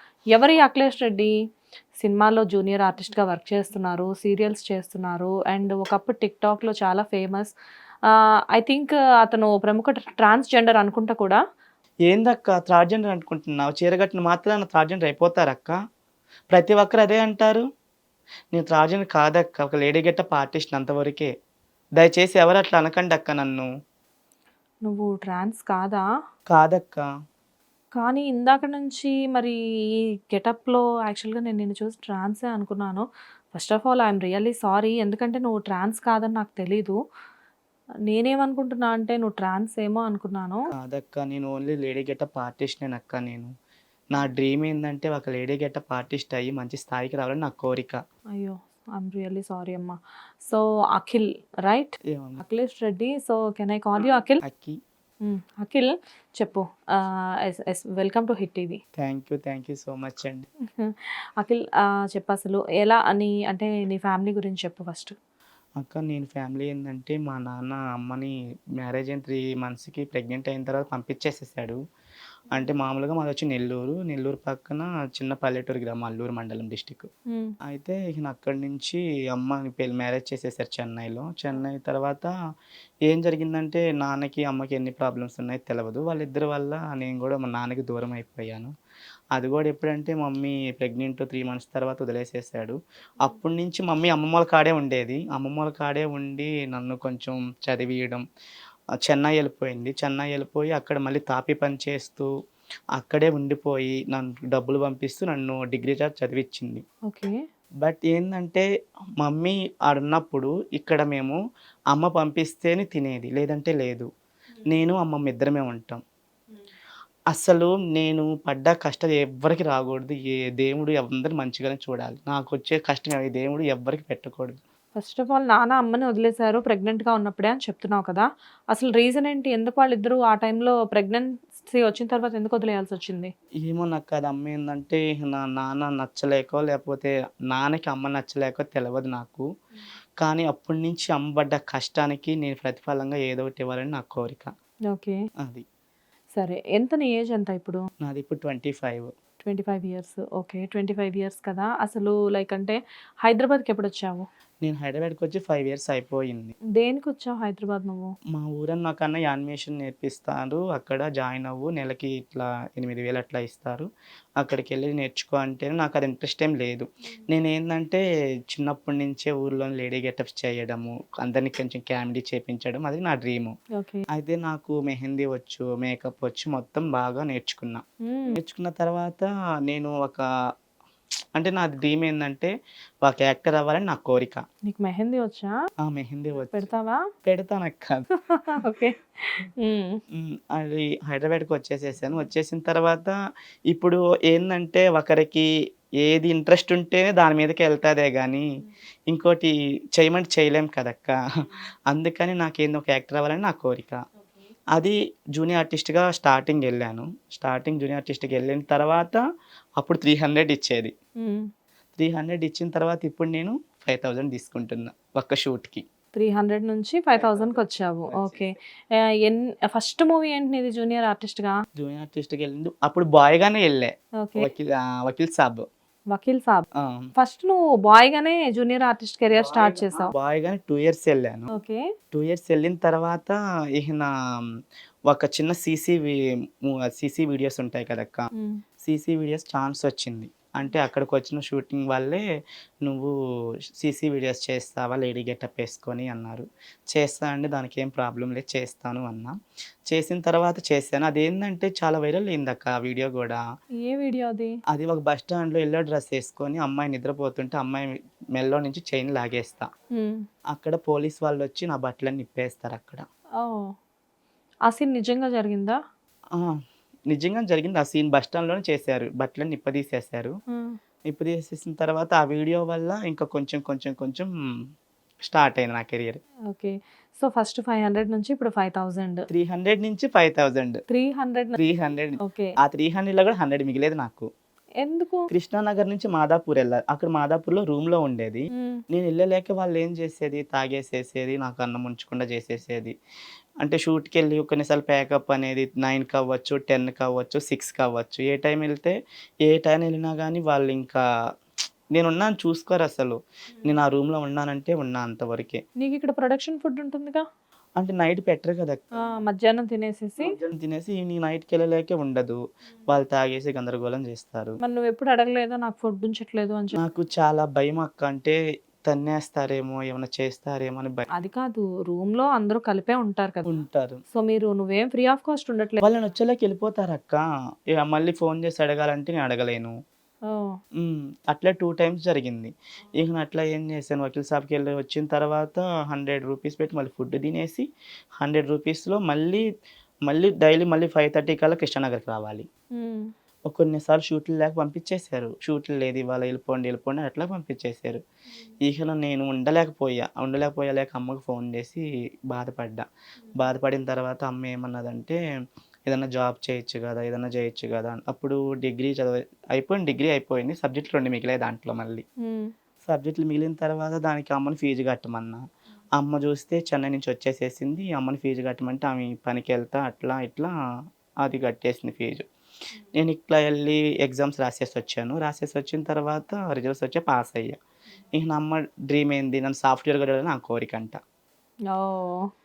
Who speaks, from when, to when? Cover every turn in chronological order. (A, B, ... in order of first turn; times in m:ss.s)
0:00.3-0:01.3 A
0:02.0-0:07.5 A
0:08.1-0:11.4 A
0:12.1-0:15.8 B
0:16.5-0:17.6 B
0:18.5-0:21.3 B
0:22.0-0:23.7 B
0:24.8-0:26.0 A
0:26.5-0:27.0 B
0:27.9-0:29.6 A
0:30.3-0:37.0 A
0:38.1-0:40.6 A
0:40.8-0:43.5 B
0:44.1-0:48.0 B
0:48.4-0:54.4 A
0:52.1-0:52.4 B
0:54.4-0:54.8 B
0:55.2-0:58.8 A
0:59.0-1:00.5 B
1:00.8-1:05.1 A
1:05.8-1:11.8 B
1:12.5-1:17.1 B
1:17.6-1:22.3 B
1:23.1-1:28.7 B
1:29.3-1:38.2 B
1:39.0-1:42.3 B
1:43.0-1:46.8 B
1:47.1-1:47.4 A
1:47.8-1:48.6 B
1:49.2-1:51.4 B
1:51.9-1:54.1 B
1:54.7-1:56.0 B
1:57.3-2:04.6 B
2:05.0-2:13.3 A
2:13.6-2:19.4 B
2:20.2-2:24.5 B
2:24.9-2:25.2 A
2:26.3-2:27.8 A
2:28.0-2:29.1 B
2:29.4-2:34.3 A
2:34.6-2:36.6 B
2:36.8-2:38.1 A
2:38.3-2:43.9 B
2:44.4-2:53.5 B
2:53.8-2:54.0 A
2:54.1-2:57.8 B
2:58.1-2:58.4 A
2:58.4-3:00.2 B
3:01.4-3:02.5 B
3:03.0-3:04.4 B
3:04.7-3:05.5 A
3:05.8-3:06.7 B
3:06.5-3:07.0 A
3:07.2-3:08.1 B
3:08.3-3:10.0 A
3:10.1-3:13.2 B
3:13.7-3:15.5 B
3:16.0-3:18.5 B
3:19.1-3:21.2 B
3:21.9-3:24.0 B
3:24.7-3:29.2 B
3:29.8-3:30.9 B
3:31.2-3:31.5 A
3:32.0-3:35.8 B
3:36.1-3:41.6 A
3:37.2-3:38.4 B
3:41.8-3:45.6 B
3:44.2-3:44.5 A
3:46.1-3:46.7 A
3:46.8-3:47.1 B
3:47.2-3:50.1 A
3:49.3-3:51.5 B
3:51.5-3:51.8 A
3:52.1-3:54.1 B
3:55.1-3:58.3 B
3:58.8-4:02.2 B
4:02.8-4:03.1 B
4:03.8-4:09.4 B
4:09.9-4:13.4 B
4:13.8-4:14.5 A
4:14.7-4:19.7 B
4:19.9-4:20.2 A
4:20.5-4:23.0 B
4:23.4-4:23.7 A
4:24.7-4:25.8 A
4:27.1-4:30.3 B
4:31.1-4:34.3 B
4:35.2-4:36.2 B
4:36.5-4:39.2 A
4:39.3-4:40.8 B
4:40.9-4:41.6 A
4:41.6-4:44.3 B
4:42.2-4:42.5 A
4:44.8-4:45.3 A
4:45.3-4:52.9 B
4:48.6-4:48.8 A
4:53.6-5:01.0 B
5:01.9-5:05.6 B
5:05.8-5:07.2 A
5:07.8-5:08.8 B
5:09.0-5:10.3 A
5:10.2-5:14.6 B
5:14.6-5:16.8 A
5:16.8-5:21.1 B
5:21.2-5:23.5 A
5:23.5-5:24.0 B
5:24.1-5:25.8 A
5:25.8-5:29.7 B
5:30.3-5:30.6 A
5:30.8-5:37.7 B
5:38.2-5:39.4 B
5:40.1-5:42.5 B
5:42.8-5:43.1 A
5:43.5-5:48.0 B
5:48.6-5:52.8 B
5:53.4-5:55.2 B
5:55.9-6:02.0 B
6:02.2-6:02.5 A
6:02.8-6:05.4 B
6:06.0-6:10.5 B
6:11.2-6:12.2 B
6:13.0-6:17.6 B
6:18.1-6:21.0 B
6:21.7-6:22.3 A